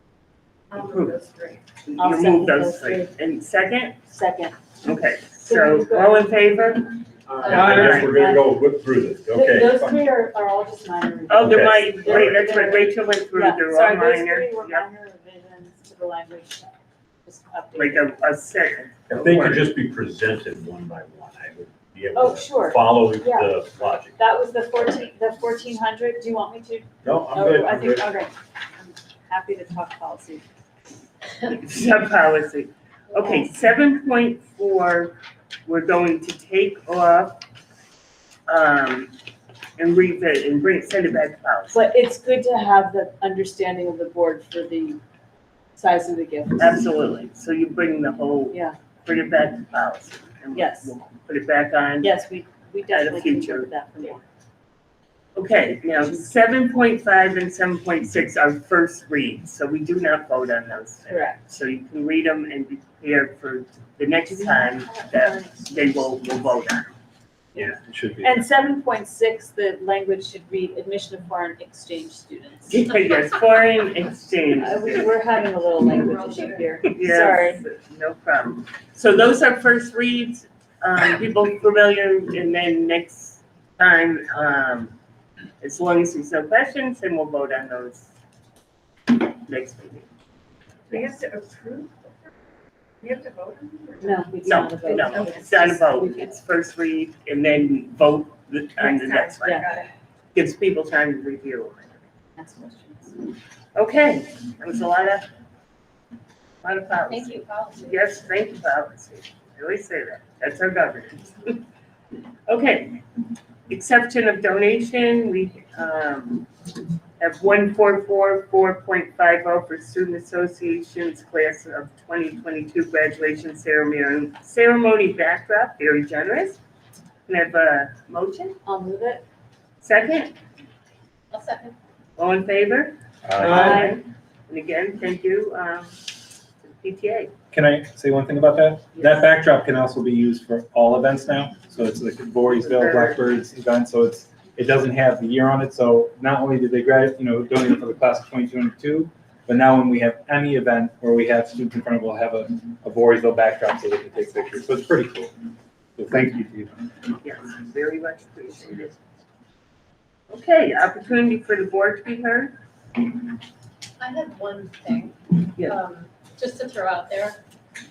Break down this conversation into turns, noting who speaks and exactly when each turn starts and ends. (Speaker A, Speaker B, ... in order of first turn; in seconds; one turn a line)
Speaker A: 0.7-1.6
Speaker B: 0.8-1.2
Speaker B: 1.9-4.0
Speaker C: 2.0-3.1
Speaker C: 4.0-4.5
Speaker B: 4.8-8.1
Speaker C: 5.4-6.4
Speaker D: 7.3-9.9
Speaker C: 7.5-8.6
Speaker C: 9.3-18.1
Speaker B: 11.3-14.8
Speaker D: 11.4-12.5
Speaker B: 17.7-19.0
Speaker D: 19.1-24.2
Speaker E: 19.1-19.7
Speaker C: 22.1-23.6
Speaker C: 24.2-30.4
Speaker D: 27.0-28.2
Speaker B: 31.4-37.4
Speaker B: 38.5-39.1
Speaker B: 39.8-41.8
Speaker C: 41.7-45.0
Speaker C: 45.8-46.8
Speaker B: 46.6-52.1
Speaker C: 48.5-48.8
Speaker C: 50.5-50.9
Speaker C: 52.0-54.2
Speaker B: 52.9-54.1
Speaker B: 55.3-66.9
Speaker C: 61.1-61.4
Speaker C: 64.3-66.2
Speaker C: 67.5-72.8
Speaker E: 67.7-68.4
Speaker B: 72.7-75.2
Speaker C: 74.5-77.6
Speaker F: 76.0-76.7
Speaker A: 76.1-76.7
Speaker B: 76.8-84.9
Speaker B: 85.6-88.1
Speaker B: 89.1-90.1
Speaker A: 90.9-92.3
Speaker A: 93.0-95.8
Speaker C: 94.0-96.3
Speaker B: 94.4-99.7
Speaker A: 98.8-99.9
Speaker C: 99.4-99.7
Speaker B: 100.3-102.0
Speaker C: 102.4-103.1
Speaker B: 103.7-105.3
Speaker B: 106.6-111.6
Speaker F: 107.1-108.2
Speaker B: 112.5-113.0
Speaker B: 113.7-116.5
Speaker B: 117.2-126.6
Speaker B: 127.2-128.6
Speaker C: 128.7-129.2
Speaker B: 129.8-130.3
Speaker F: 131.3-131.8
Speaker B: 132.2-136.0
Speaker E: 133.3-133.8
Speaker D: 133.3-133.8
Speaker C: 133.5-134.0
Speaker B: 136.6-137.3
Speaker E: 137.5-155.3
Speaker B: 138.9-139.2
Speaker B: 142.5-143.2
Speaker E: 156.0-156.9
Speaker B: 157.2-159.0
Speaker B: 160.3-162.5
Speaker F: 164.0-167.4